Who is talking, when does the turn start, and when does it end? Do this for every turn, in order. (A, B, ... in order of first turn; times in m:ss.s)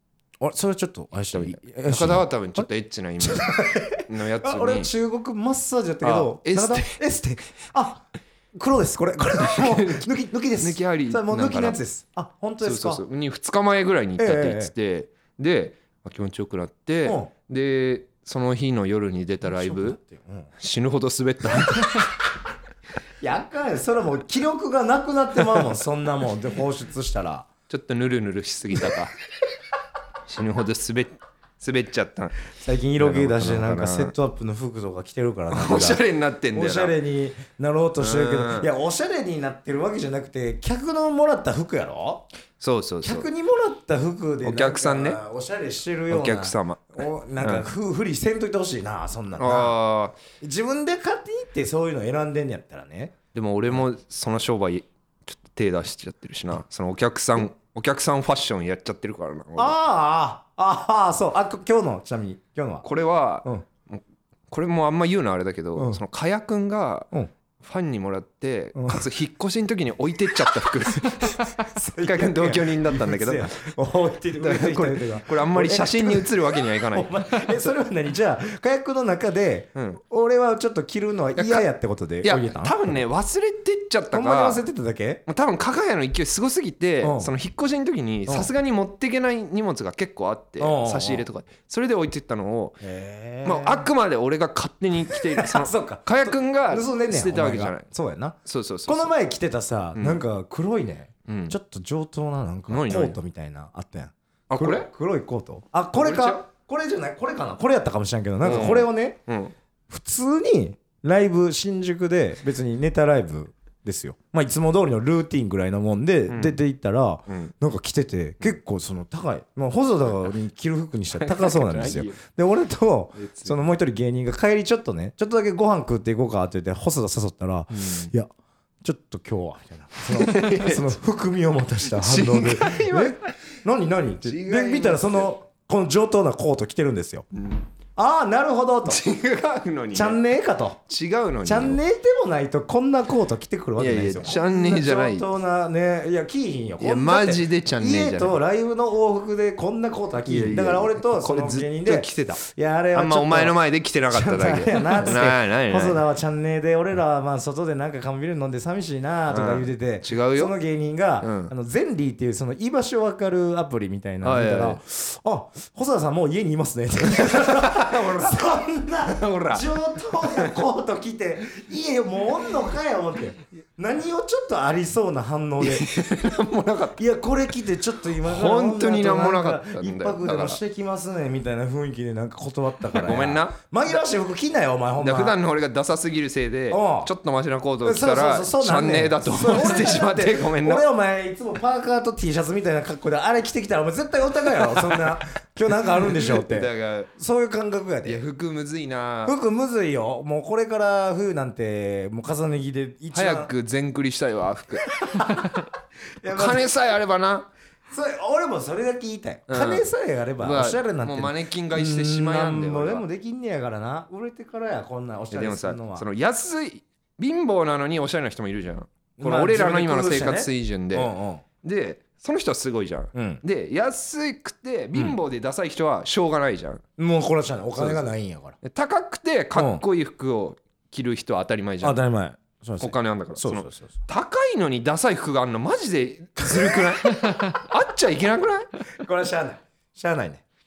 0:00.4-0:02.7 A
0:01.3-0:04.9 B
0:03.2-0:13.0 A
0:06.0-0:07.0 B
0:09.4-0:10.1 B
0:10.6-0:11.8 B
0:12.6-0:20.0 B
0:14.2-0:14.7 A
0:17.0-0:17.3 A
0:19.4-0:20.5 A
0:20.6-0:22.1 B
0:23.2-0:27.5 A
0:27.7-0:29.1 B
0:30.2-0:32.3 B
0:32.6-0:36.0 A
0:33.0-0:34.1 B
0:35.5-0:36.9 B
0:36.5-0:42.3 A
0:38.0-0:38.7 B
0:42.6-0:43.3 B
0:43.0-0:49.8 A
0:44.4-0:45.2 B
0:46.1-0:47.7 B
0:49.4-0:50.2 B
0:50.4-0:53.1 A
0:53.3-0:59.8 B
0:59.6-1:02.9 A
1:02.8-1:13.7 B
1:05.7-1:06.0 A
1:08.7-1:09.0 A
1:11.0-1:22.8 A
1:14.4-1:17.7 B
1:19.7-1:20.0 B
1:21.4-1:21.6 B
1:22.2-1:24.6 B
1:24.1-1:25.2 A
1:25.3-1:32.8 B
1:27.0-1:27.3 A
1:30.6-1:31.3 A
1:32.8-1:33.9 A
1:33.4-1:37.9 B
1:35.1-1:49.2 A
1:38.4-1:39.1 B
1:39.9-1:40.2 B
1:41.3-1:41.6 B
1:42.7-1:43.2 B
1:44.5-1:44.9 B
1:46.0-1:46.4 B
1:48.4-1:49.5 B
1:49.9-2:08.3 A
1:56.3-1:56.6 B
1:57.3-1:57.5 B
2:01.2-2:02.2 B
2:03.2-2:03.6 B
2:07.7-2:08.1 B
2:08.8-2:17.2 A
2:10.1-2:10.9 B
2:12.0-2:13.3 B
2:14.2-2:15.3 B
2:17.3-2:17.6 B
2:18.0-2:19.0 A
2:18.8-2:20.2 B
2:19.9-2:20.8 A
2:20.9-2:21.8 B
2:21.4-2:55.9 A
2:23.8-2:25.3 B
2:26.8-2:28.4 B
2:30.2-2:36.0 B
2:39.3-2:40.6 B
2:41.2-2:41.5 B
2:44.2-2:44.8 B
2:47.2-2:48.3 B
2:49.1-2:50.5 B
2:55.6-2:57.0 B
2:57.0-3:05.4 A
2:58.2-3:00.6 B
3:02.9-3:03.6 B
3:05.0-3:10.8 B
3:06.7-3:07.1 A
3:07.8-3:18.2 A
3:15.8-3:17.1 B
3:18.0-3:19.4 B
3:19.2-3:23.5 A
3:23.1-3:25.3 B
3:25.0-3:25.6 A
3:26.2-3:26.7 A
3:26.3-3:27.5 B
3:27.9-3:36.0 A
3:29.5-3:29.8 B
3:30.4-3:33.0 B
3:35.3-3:46.8 B
3:39.2-3:41.4 A
3:43.1-3:43.4 A
3:47.0-3:48.6 A
3:48.6-3:52.0 B
3:49.5-3:49.8 A
3:51.8-3:53.9 A
3:52.8-3:58.7 B
3:59.0-4:00.4 A